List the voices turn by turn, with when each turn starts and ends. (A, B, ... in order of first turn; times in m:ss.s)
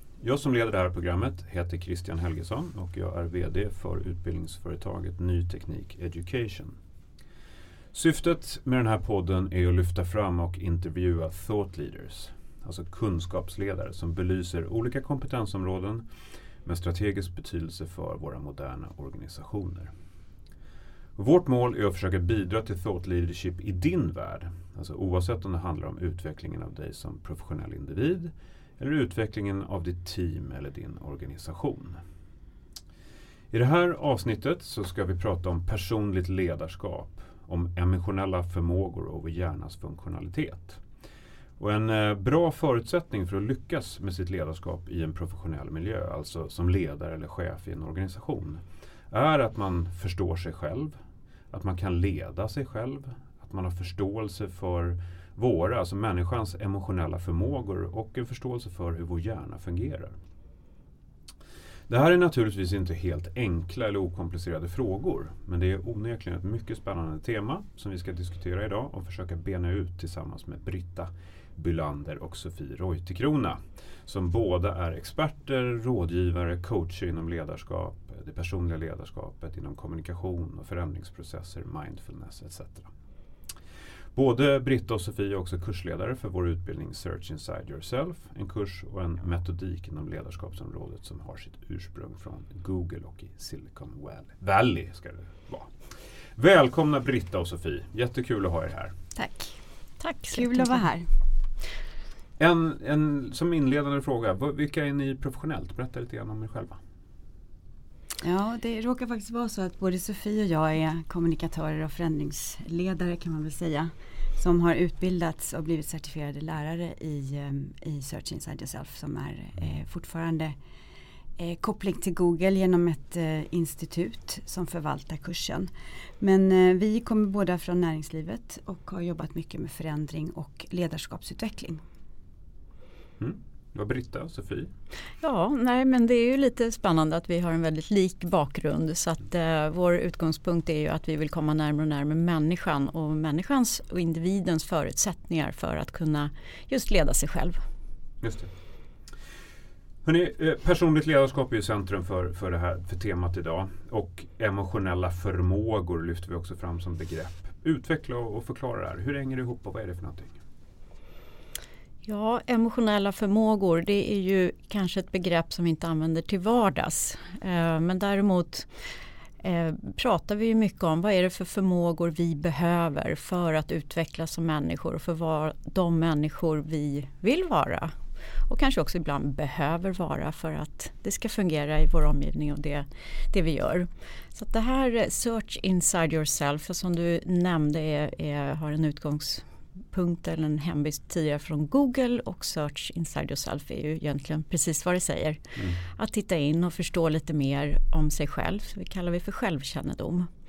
0:00.2-0:06.8 A
0:07.9-0:16.1 A
0:16.6-0:19.9 A
0:21.2-0:32.0 A
0:33.5-0:40.8 A
0:41.6-0:51.0 A
0:51.5-1:00.2 A
1:01.9-1:22.9 A
1:24.1-1:38.9 A
1:39.2-1:39.6 B
1:40.0-1:40.8 C
1:40.3-1:41.1 B
1:42.4-1:46.8 A
1:48.2-2:00.6 B
2:01.4-2:11.8 B
2:13.2-2:14.7 A
2:15.2-2:27.6 C
2:28.2-2:28.5 A
2:30.0-2:40.4 A
2:42.0-2:48.7 C
2:49.4-3:20.3 C